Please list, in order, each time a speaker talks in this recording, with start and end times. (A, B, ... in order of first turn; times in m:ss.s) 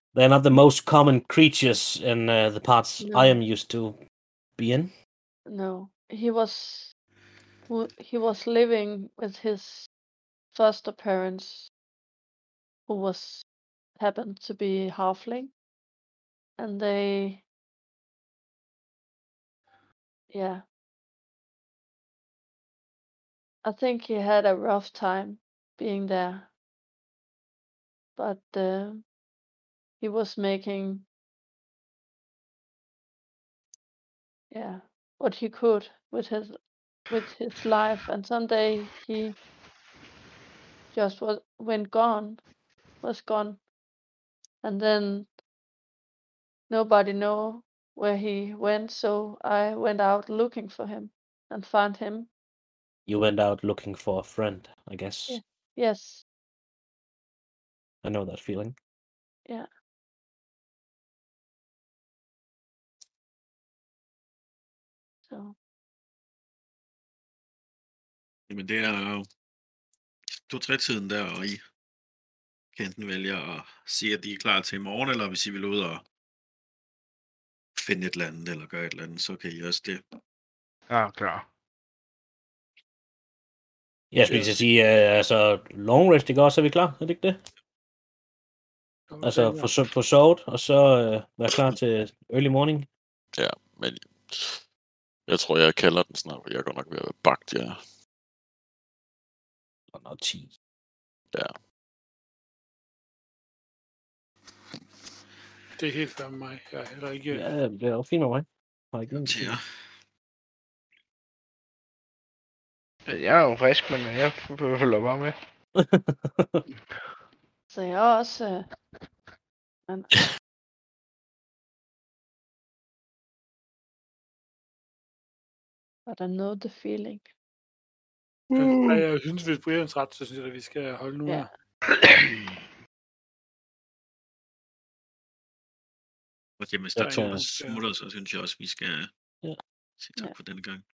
0:00.1-0:04.0 A
0:03.0-0:03.4 B
0:04.6-0:04.9 A
0:05.5-0:06.9 B
0:07.7-0:09.9 B
0:10.5-0:11.7 B
0:12.9-0:13.4 B
0:14.0-0:15.5 B
0:16.6-0:17.4 B
0:20.3-0:20.6 B
0:23.6-0:26.5 B
0:28.2-0:29.0 B
0:30.0-0:31.1 B
0:34.5-0:36.6 B
0:37.1-0:39.4 B
0:40.9-0:42.4 B
0:43.0-0:43.6 B
0:44.6-0:45.3 B
0:46.7-0:52.3 B
0:53.1-0:55.4 A
0:55.3-0:56.2 B
0:58.0-0:58.8 A
1:05.3-1:05.6 B
1:08.5-1:09.3 C
1:10.3-1:11.6 C
1:12.8-1:16.0 C
1:17.8-1:20.0 C
1:20.9-1:21.5 D
1:24.1-1:27.4 A
1:24.2-1:24.7 E
1:29.1-1:29.8 E
1:29.2-1:32.9 A
1:33.4-1:34.6 F
1:35.3-1:37.8 F
1:39.9-1:40.5 A
1:45.8-1:47.5 E
1:47.3-1:49.6 A
1:49.1-1:49.6 C
1:53.1-1:55.4 D
1:55.8-1:56.6 A
1:57.7-1:58.7 B
2:06.1-2:07.3 B
2:08.5-2:11.5 E
2:08.6-2:09.0 F
2:12.0-2:12.4 D
2:16.6-2:19.1 C
2:17.0-2:17.5 A
2:17.0-2:17.8 E
2:20.0-2:20.8 C